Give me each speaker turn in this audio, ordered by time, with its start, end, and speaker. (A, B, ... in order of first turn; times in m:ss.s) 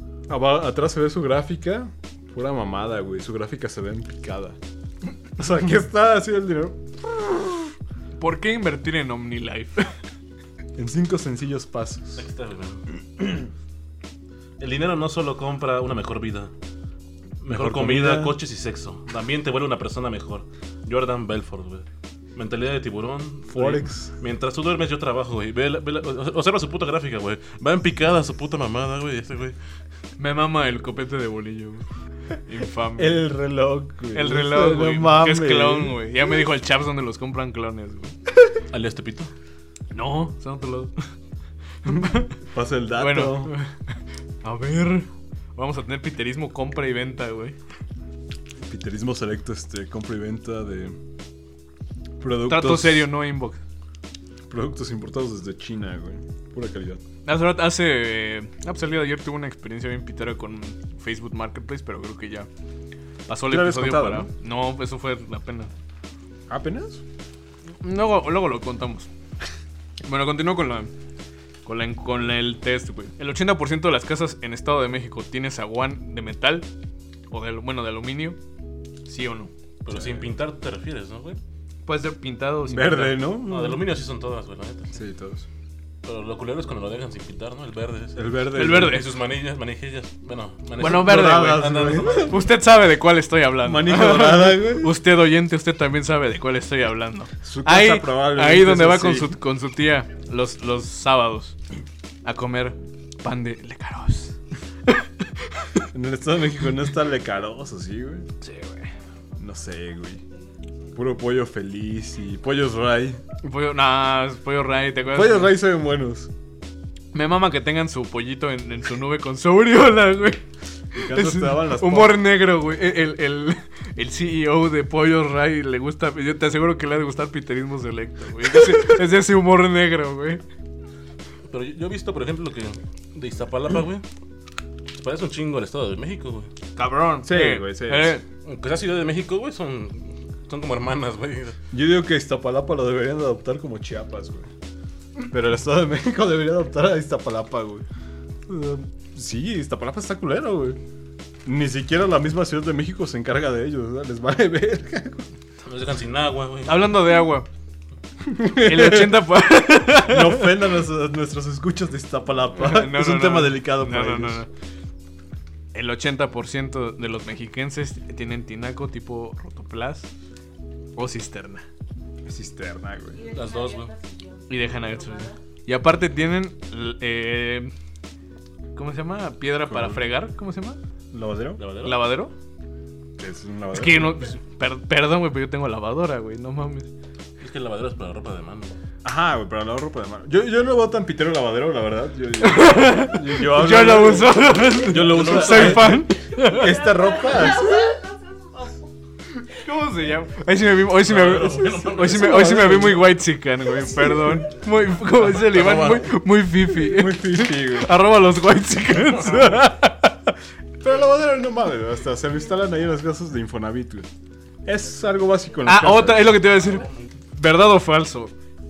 0:00.3-0:04.6 A
0:05.4-0:07.6 A
0:08.2-0:10.0 B
0:10.8-0:12.2 A
0:12.2-0:13.4 C
0:14.6-0:16.5 C
0:17.4-0:29.6 C
0:17.5-0:18.4 A
0:23.5-0:24.1 A
0:30.2-0:31.8 B
0:32.4-0:33.2 B
0:33.0-0:36.0 A
0:34.1-0:38.2 B
0:38.7-0:39.3 C
0:39.9-0:40.9 B
0:41.8-0:42.4 B
0:41.9-0:43.5 A
0:43.0-0:47.6 B
0:48.6-0:51.0 A
0:52.2-0:53.1 A
0:52.4-0:53.6 B
0:54.5-0:57.0 A
0:57.2-1:02.5 B
1:03.3-1:05.7 B
1:03.4-1:04.3 A
1:06.5-1:07.0 A
1:07.8-1:09.1 B
1:10.0-1:10.9 B
1:11.6-1:16.7 B
1:17.3-1:18.4 B
1:19.0-1:19.5 B
1:19.8-1:21.4 C
1:19.9-1:20.2 A
1:21.8-1:23.2 B
1:22.6-1:23.8 A
1:23.5-1:25.0 C
1:24.9-1:25.4 A
1:26.0-1:32.5 C
1:28.2-1:29.0 A
1:28.5-1:29.1 B
1:30.8-1:32.4 A
1:30.8-1:41.6 B
1:33.6-1:35.0 A
1:37.4-1:39.3 A
1:42.2-1:45.7 B
1:45.9-1:48.3 A
1:48.4-1:48.9 B
1:49.4-1:50.2 A
1:50.9-1:53.2 A
1:53.4-1:55.5 B
1:55.1-1:56.3 A
1:57.1-2:00.4 B
2:00.9-2:02.2 A
2:01.0-2:10.4 B
2:11.4-2:14.0 C
2:14.9-2:16.5 C
2:16.8-2:18.2 B
2:17.2-2:18.2 A
2:18.4-2:21.6 C
2:21.7-2:24.5 A
2:25.3-2:27.8 A
2:28.5-2:30.8 A
2:31.4-2:35.3 A
2:35.6-2:37.0 C
2:36.6-2:37.5 B
2:38.2-2:39.3 A
2:38.6-2:40.5 B
2:39.9-2:44.4 A
2:42.6-2:44.5 B
2:45.7-2:50.1 B
2:51.0-2:51.6 B
2:52.2-2:53.4 A
2:53.3-2:54.0 C
2:54.5-2:57.7 B
2:58.7-3:00.8 B
2:59.7-3:00.0 A
3:01.1-3:01.6 A
3:01.6-3:02.0 C
3:01.8-3:02.3 B
3:03.2-3:04.1 A
3:03.7-3:06.9 B
3:07.4-3:08.8 C
3:09.0-3:18.0 A
3:12.4-3:16.8 B
3:14.9-3:16.0 C
3:19.4-3:30.3 B
3:21.0-3:22.6 C
3:22.0-3:23.2 A
3:25.1-3:26.1 C
3:26.6-3:27.9 A
3:29.2-3:29.5 C
3:30.8-3:34.1 A
3:34.6-3:36.4 A
3:35.6-3:38.3 B